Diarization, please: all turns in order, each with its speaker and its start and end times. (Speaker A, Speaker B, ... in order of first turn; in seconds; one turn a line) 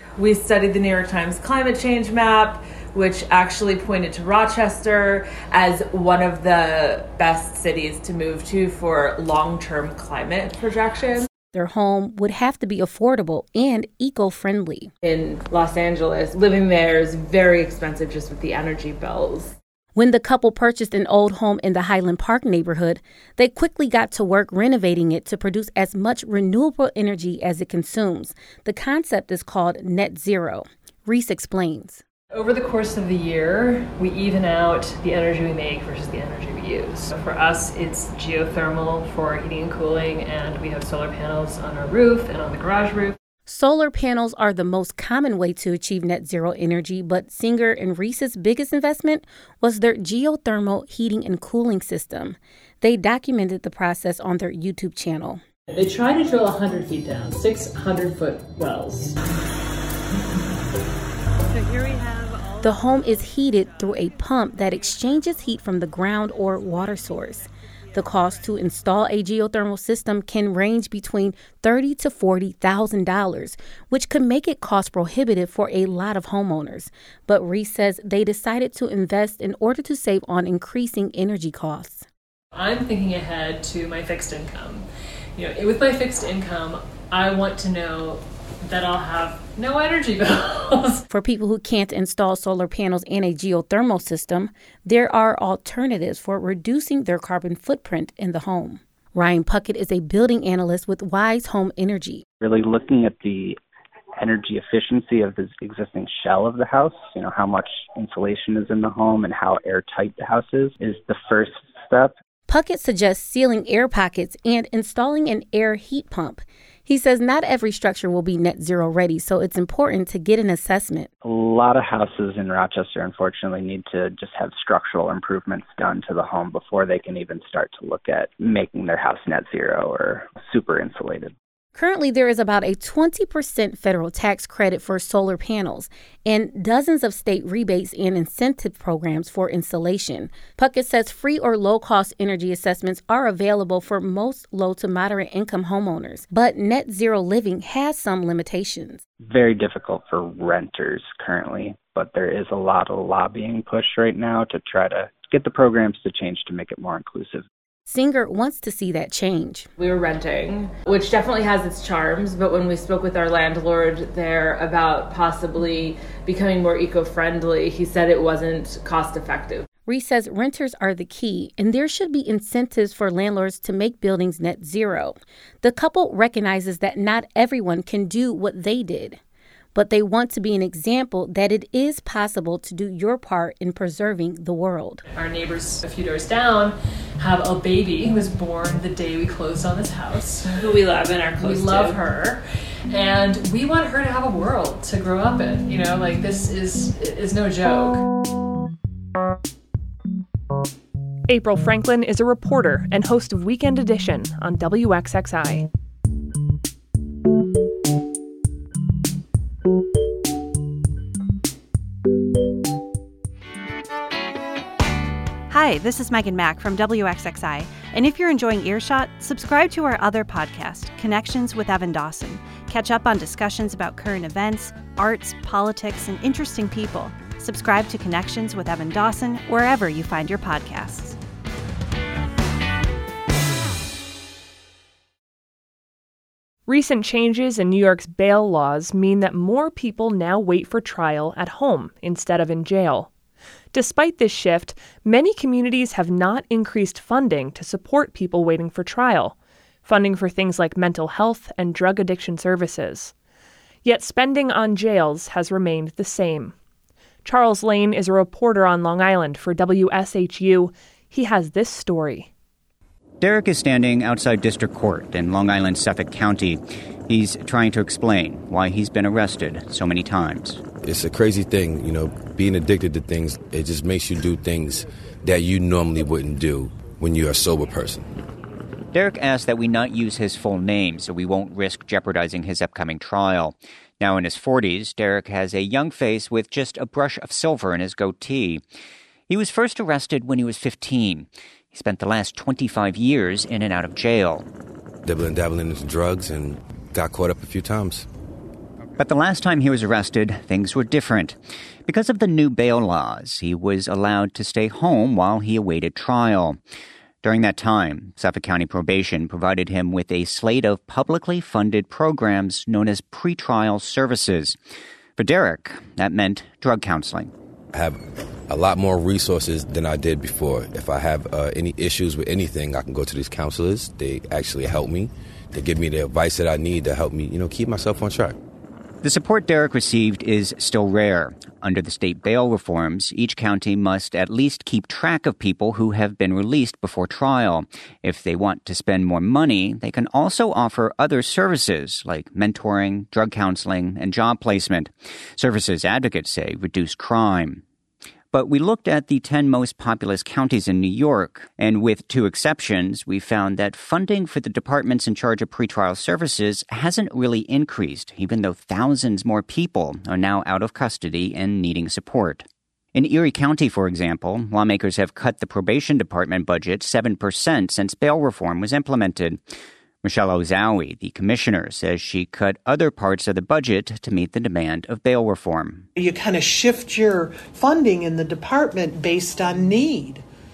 Speaker A: 0.2-11.3
Speaker B: 11.5-14.9
Speaker A: 15.0-19.6
Speaker B: 19.9-32.0
Speaker C: 32.3-43.2
Speaker B: 43.5-55.4
Speaker C: 55.7-59.1
Speaker C: 61.7-62.2
Speaker B: 62.6-82.1
Speaker C: 82.5-84.9
Speaker C: 85.4-91.0
Speaker B: 91.1-102.2
Speaker D: 102.4-103.6
Speaker D: 104.2-112.1
Speaker B: 112.5-121.1
Speaker D: 121.2-131.3
Speaker B: 131.8-149.0
Speaker D: 149.3-157.5
Speaker B: 157.9-159.7
Speaker A: 159.8-169.7
Speaker B: 169.9-179.2
Speaker B: 179.8-185.0
Speaker C: 185.1-198.0
Speaker A: 190.6-192.0
Speaker E: 201.3-205.7
Speaker F: 215.5-231.2
Speaker E: 236.7-243.1
Speaker E: 243.7-253.1
Speaker E: 253.8-256.6
Speaker E: 257.2-262.3
Speaker G: 263.2-270.6
Speaker H: 270.8-278.1
Speaker G: 278.9-288.6
Speaker G: 289.3-294.5
Speaker H: 295.1-298.1
Speaker G: 299.0-301.4
Speaker G: 301.9-306.6
Speaker G: 307.2-314.6
Speaker G: 315.2-317.3
Speaker H: 318.5-328.4
Speaker G: 329.0-347.6
Speaker G: 348.3-369.4
Speaker G: 370.0-375.9
Speaker I: 376.0-380.2